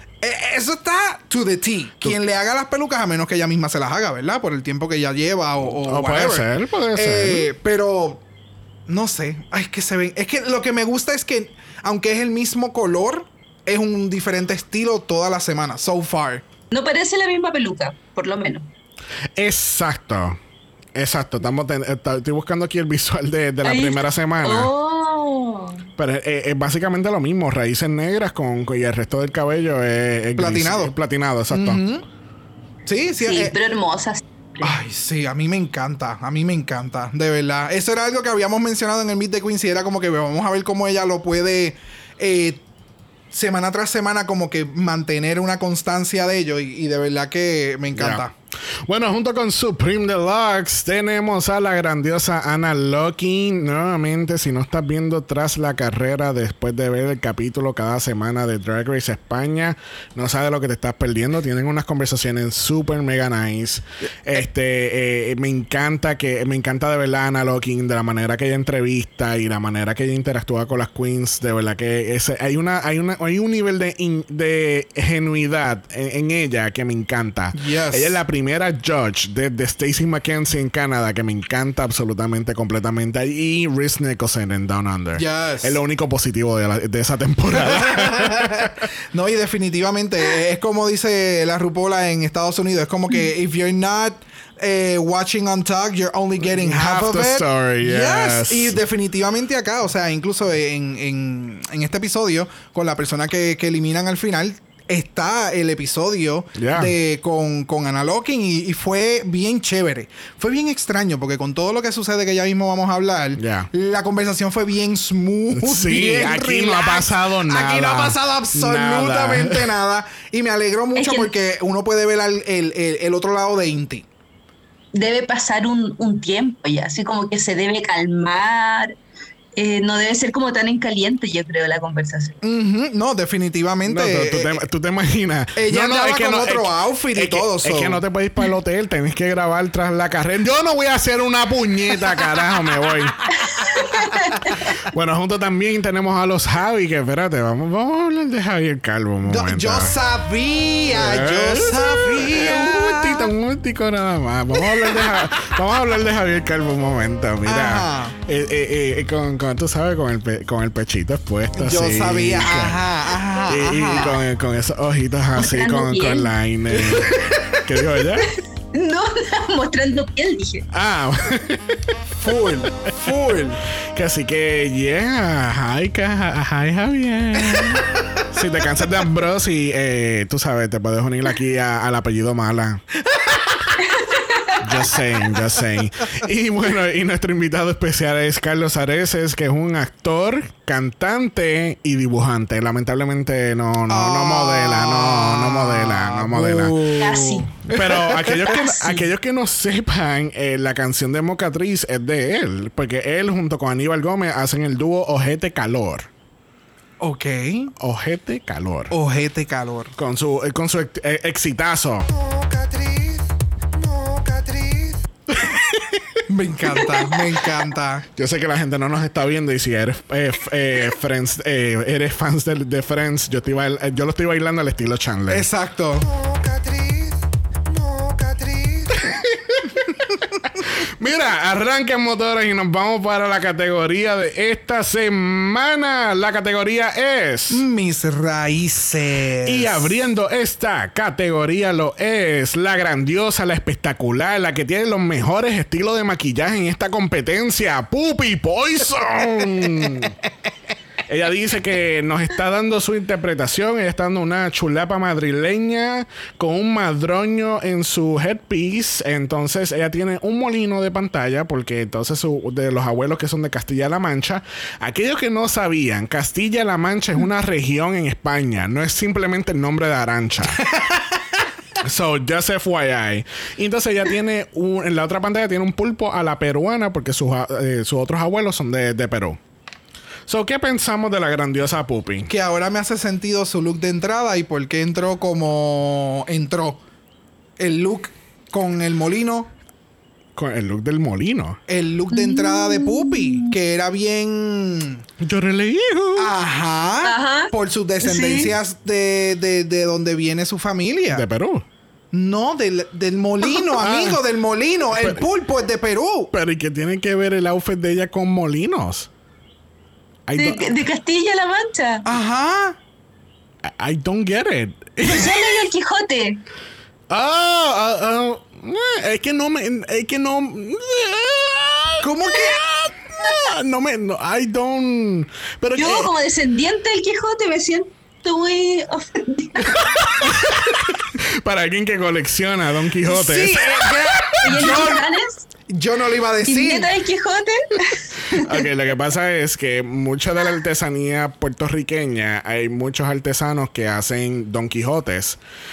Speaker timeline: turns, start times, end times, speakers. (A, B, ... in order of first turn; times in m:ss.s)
0:00.2-0:08.2 A
0:05.8-0:07.5 B
0:08.9-0:16.4 A
0:16.7-0:18.7 C
0:19.4-0:20.4 B
0:21.0-0:24.7 B
0:23.6-0:25.9 C
0:26.0-0:31.8 B
0:30.4-0:30.9 A
0:31.5-0:32.0 A
0:32.9-0:33.6 A
0:33.2-0:34.7 C
0:34.6-0:42.6 A
0:43.3-0:48.3 A
0:47.9-0:48.2 B
0:48.9-1:28.8 B
1:17.5-1:18.2 A
1:25.2-1:25.8 A
1:27.5-2:04.1 A
1:36.4-1:38.8 B
1:46.6-1:46.9 B
1:53.4-1:53.7 B
1:55.5-1:59.7 B
2:01.0-2:01.3 C
2:04.9-2:09.0 C
2:09.6-2:12.4 C
2:12.4-2:14.6 A
2:13.8-2:23.2 B
2:15.6-2:18.0 A
2:23.5-2:24.5 C
2:24.5-2:29.9 B
2:29.2-2:33.3 A
2:30.9-2:42.8 B
2:34.6-2:34.9 A
2:37.4-2:38.2 A
2:41.5-2:44.3 A
2:43.5-2:48.4 B
2:45.4-2:47.3 C
2:48.3-2:50.7 C
2:50.7-2:51.8 B
2:52.2-2:53.6 A
2:53.9-3:02.8 B
3:04.0-3:04.5 C
3:04.6-3:17.0 B
3:13.9-3:18.6 A
3:17.0-3:17.5 C
3:17.7-3:26.1 B
3:18.5-3:19.0 C
3:27.0-3:27.7 A
3:27.8-3:28.9 B
3:28.9-3:29.9 A
3:30.0-3:32.1 B
3:32.4-3:33.2 A
3:34.0-3:34.9 A
3:35.3-3:36.2 B
3:36.3-3:38.0 A
3:38.2-3:45.5 B
3:45.3-3:47.1 A
3:48.0-3:48.9 A
3:48.9-3:57.6 B
3:57.5-3:59.9 A
3:59.4-4:10.2 B
4:11.1-4:30.6 B
4:30.6-4:31.2 A
4:31.8-4:39.4 B
4:40.3-4:42.3 B
4:42.3-4:46.8 A
4:47.6-4:49.5 A
4:50.4-4:51.6 B
4:51.7-4:55.0 A
4:52.1-4:53.5 C
4:55.2-4:56.3 B
4:56.2-5:01.3 A
4:57.0-4:58.5 C
5:01.1-5:01.6 B
5:02.1-5:06.3 A
5:03.8-5:04.2 B
5:05.0-5:05.2 B
5:06.3-5:09.1 B
5:10.3-5:10.7 B
5:10.4-5:12.1 C
5:12.0-5:12.8 A
5:13.6-5:15.4 B
5:15.0-5:16.4 C
5:17.1-5:26.1 B
5:22.0-5:22.6 A
5:25.8-5:29.9 C
5:29.8-5:34.7 B
5:33.0-5:35.0 A
5:34.4-5:35.4 C
5:35.7-5:36.9 A
5:36.4-5:38.6 C
5:38.3-5:45.4 B